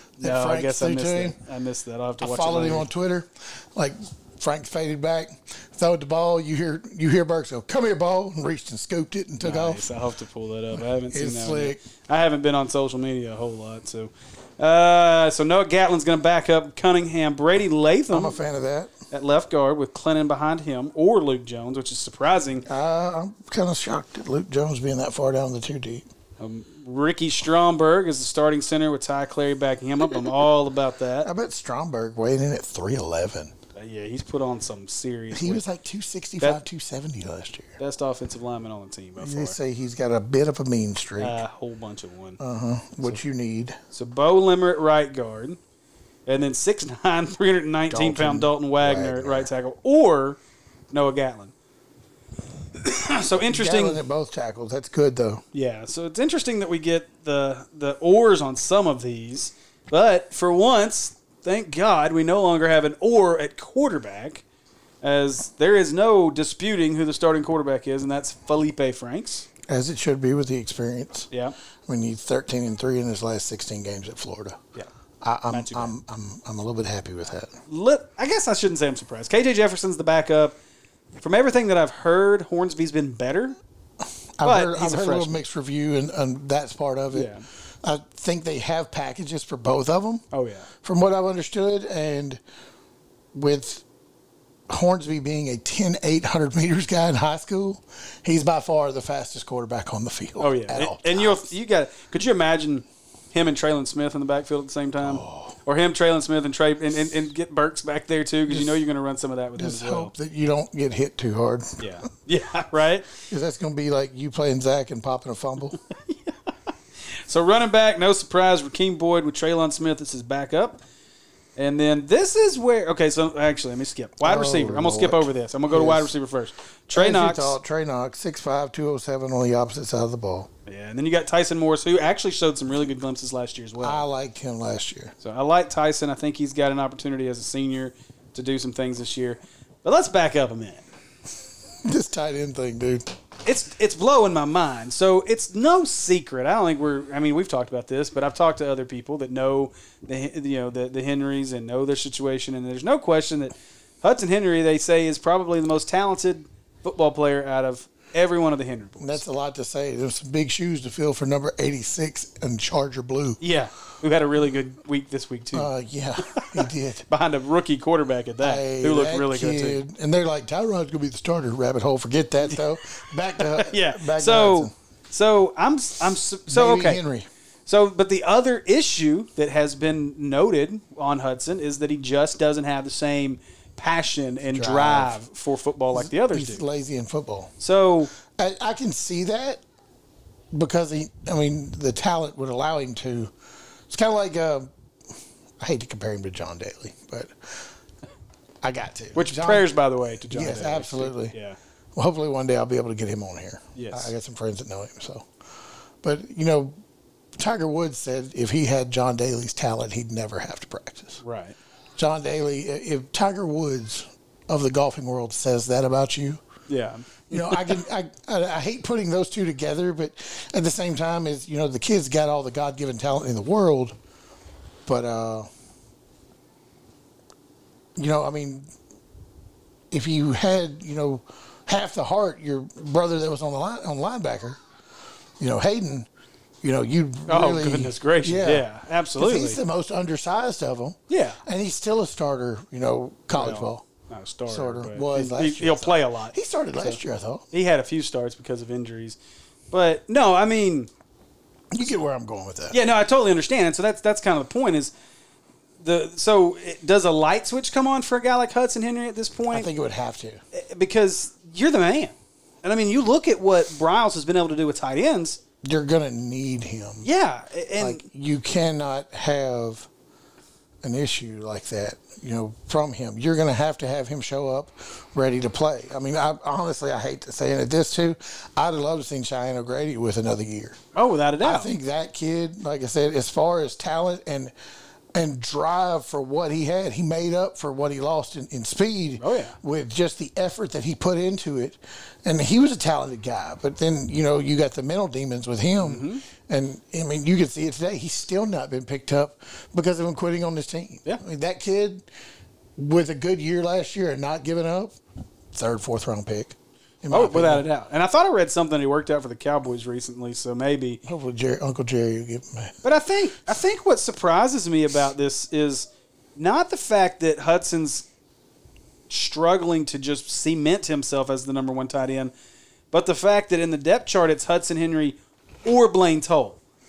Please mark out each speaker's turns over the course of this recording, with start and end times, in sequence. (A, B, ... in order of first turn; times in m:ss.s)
0:00.2-0:01.4 A
0:00.2-0:02.9 B
0:02.2-0:09.9 A
0:09.4-0:18.4 B
0:10.7-0:11.8 A
0:18.1-0:18.9 A
0:19.1-0:22.7 B
0:22.6-0:26.0 A
0:26.4-0:31.3 B
0:31.2-0:33.5 A
0:33.7-0:35.6 B
0:35.3-0:37.8 A
0:37.8-0:39.6 B
0:39.2-0:41.4 A
0:41.2-0:42.4 B
0:42.4-0:43.8 A
0:43.9-0:45.6 B
0:46.3-0:50.4 B
0:47.9-0:49.5 A
0:50.9-0:51.5 B
0:52.8-0:54.0 B
0:53.5-0:55.4 A
0:55.5-1:04.4 B
1:05.0-1:09.5 B
1:09.7-1:11.3 A
1:11.9-1:14.6 A
1:15.2-1:17.5 A
1:15.5-1:16.0 B
1:17.7-1:20.6 B
1:21.2-1:23.6 B
1:24.4-1:27.3 A
1:24.4-1:25.4 B
1:27.1-1:27.4 B
1:27.8-1:30.2 A
1:30.3-1:30.7 B
1:30.8-1:32.4 A
1:33.3-1:33.8 A
1:34.7-1:41.5 A
1:40.4-1:50.1 B
1:45.0-1:45.6 A
1:48.5-1:48.8 A
1:49.6-1:51.8 A
1:51.8-1:53.1 B
1:53.3-1:55.8 A
1:55.9-1:56.3 B
1:57.2-2:00.8 B
2:01.6-2:07.6 B
2:04.2-2:06.1 A
2:06.9-2:10.5 A
2:10.6-2:14.0 B
2:13.8-2:15.1 A
2:15.2-2:20.9 B
2:21.8-2:23.1 A
2:23.4-2:39.2 B
2:39.0-2:43.4 A
2:43.4-2:45.7 B
2:45.5-2:47.1 A
2:46.3-2:49.8 B
2:48.4-2:54.7 A
2:53.4-2:57.0 B
2:56.5-2:57.3 A
2:57.7-3:06.6 B
3:04.5-3:05.2 A
3:05.9-3:07.5 A
3:07.6-3:08.1 B
3:08.2-3:09.6 A
3:10.5-3:13.3 A
3:13.9-3:14.7 A
3:15.6-3:17.7 A
3:18.6-3:19.7 A
3:19.1-3:21.6 B
3:20.3-3:21.3 A
3:22.0-3:25.3 A
3:23.7-3:24.1 B
3:26.0-3:26.8 A
3:27.4-3:31.2 A
3:31.2-3:31.6 B
3:32.0-3:36.4 A
3:36.7-3:37.8 B
3:37.3-3:44.0 A
3:44.8-3:45.5 A
3:48.0-3:48.7 A
3:49.9-3:54.6 A
3:55.4-3:56.1 A
3:56.6-4:03.8 A
3:57.3-3:59.6 B
4:01.1-4:01.4 B
4:03.3-4:07.0 B
4:04.5-4:07.4 A
4:07.5-4:09.2 B
4:09.7-4:10.9 B
4:11.7-4:12.8 A
4:12.7-4:14.9 B
4:15.8-4:19.7 B
4:19.5-4:20.4 A
4:20.5-4:25.4 B
4:25.6-4:27.1 A
4:27.0-4:28.0 B
4:27.8-4:29.9 A
4:30.8-4:40.8 A
4:40.9-4:41.7 B
4:41.4-4:44.5 A
4:45.1-5:02.0 A
4:49.2-4:49.6 B
4:55.8-4:56.2 B
5:02.8-5:05.0 A
5:05.5-5:07.6 A
5:07.1-5:11.0 B
5:11.0-5:12.8 A
5:12.8-5:18.1 B
5:19.1-5:22.3 B
5:22.9-5:26.6 B